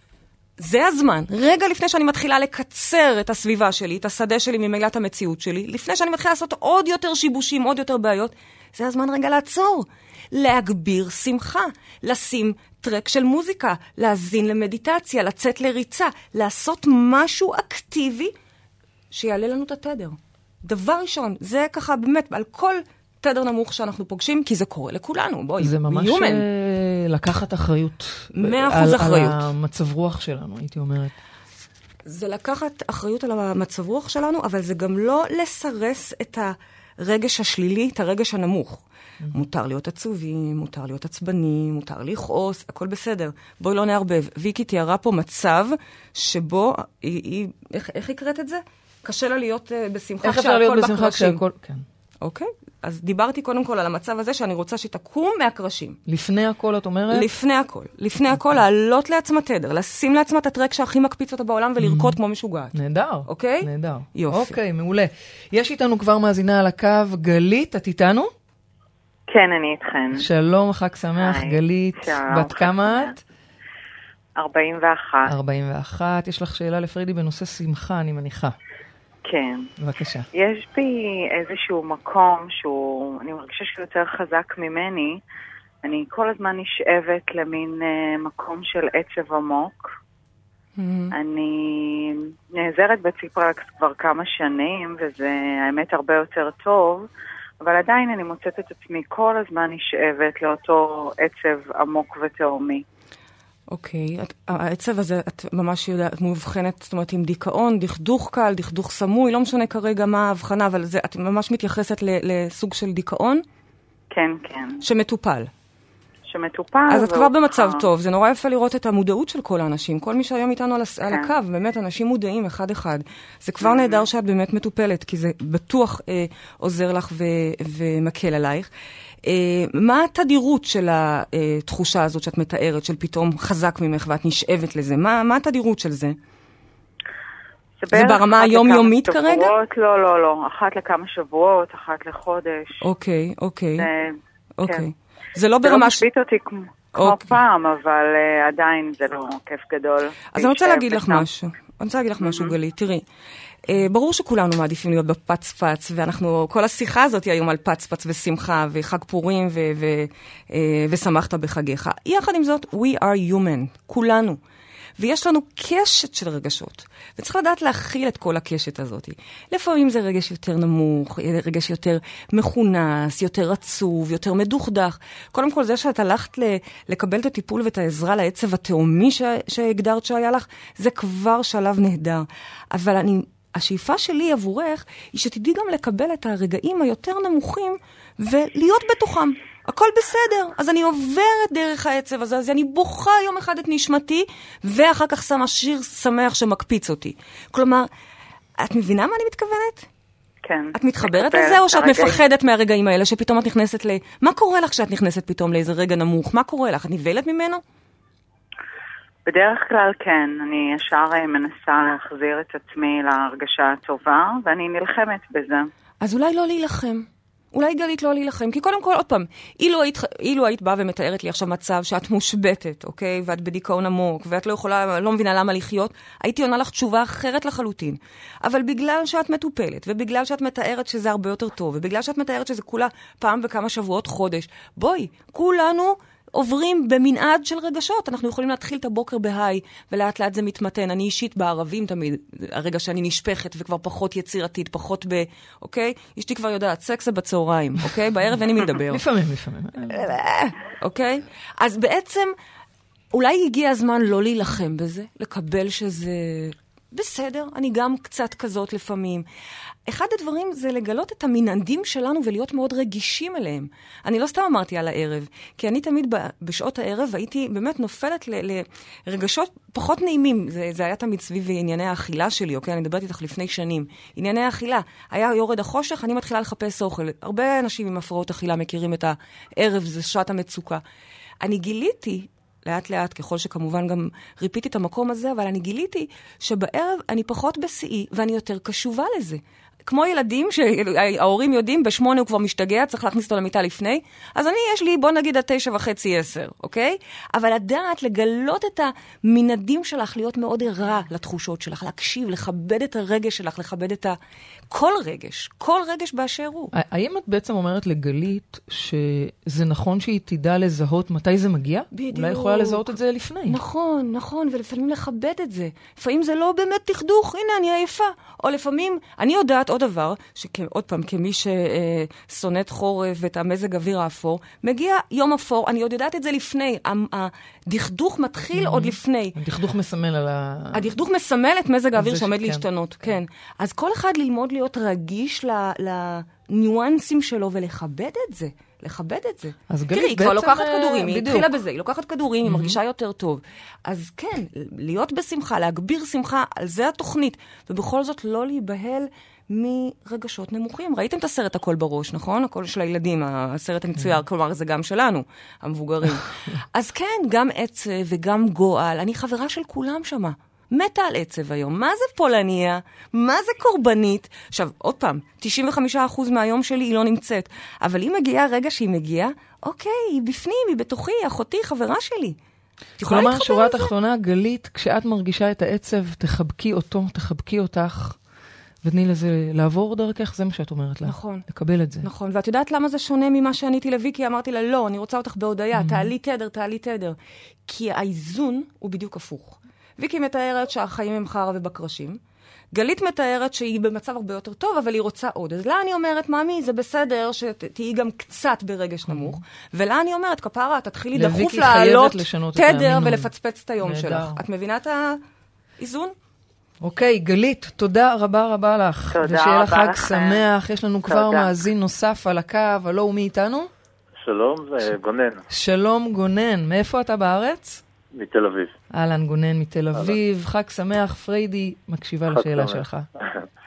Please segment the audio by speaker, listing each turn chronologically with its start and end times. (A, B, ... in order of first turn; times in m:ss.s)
0:00.6-0:18.3 A
0:19.1-0:26.4 A
0:25.6-0:31.1 B
0:28.3-0:29.5 A
0:32.0-0:51.4 A
0:50.2-0:51.8 B
0:52.2-0:56.0 A
0:56.0-0:57.3 B
0:57.1-1:02.7 A
1:01.8-1:02.2 B
1:02.7-1:08.3 B
1:03.2-1:04.6 A
1:09.3-1:10.2 C
1:10.1-1:13.2 B
1:11.2-1:13.1 C
1:14.4-1:15.3 C
1:15.2-1:18.6 B
1:19.2-1:19.7 C
1:19.8-1:20.2 B
1:20.3-1:25.2 C
1:25.8-1:29.9 C
1:30.8-1:31.1 A
1:31.1-1:37.1 C
1:37.6-1:42.8 C
1:43.7-1:53.4 A
1:54.1-1:54.8 C
1:54.8-1:55.5 A
1:56.3-1:57.8 C
1:56.9-2:08.7 A
2:03.6-2:04.0 C
2:09.2-2:16.2 A
2:17.8-2:22.8 C
2:17.9-2:19.5 A
2:22.8-2:23.9 A
2:23.8-2:24.8 C
2:24.6-2:26.0 A
2:25.6-2:31.2 C
2:26.9-2:27.3 A
2:30.4-2:33.0 A
2:32.2-2:32.5 C
2:33.6-2:44.4 A
2:45.0-3:17.9 A
3:18.6-3:19.9 A
3:20.4-3:22.2 C
3:20.7-3:27.6 A
3:29.2-3:35.7 C
3:36.0-4:09.0 A
4:08.7-4:10.0 B
4:09.9-4:12.3 A
4:13.1-4:19.2 A
4:19.8-4:40.8 A
4:41.4-5:04.2 A
5:04.7-5:06.7 A
5:06.7-5:13.6 B
5:11.9-5:12.9 A
5:13.4-5:29.4 A
5:28.5-5:30.9 B
5:30.7-6:12.4 A
5:32.0-5:32.6 B
5:39.7-5:41.5 B
5:42.4-5:42.8 B
6:13.0-6:13.9 A
6:13.0-6:18.2 B
6:18.8-6:22.1 B
6:21.0-6:21.4 A
6:22.0-6:32.2 A
6:25.7-6:26.1 B
6:32.7-6:45.2 A
6:39.1-6:39.4 B
6:41.1-6:43.3 B
6:43.8-6:44.4 B
6:45.8-6:46.1 A
6:46.8-6:53.7 B
6:49.1-6:50.4 C
6:51.1-6:51.5 C
6:54.2-6:55.4 D
6:55.5-6:57.8 B
6:58.2-6:58.7 D
6:58.9-7:03.0 B
7:02.3-7:03.4 D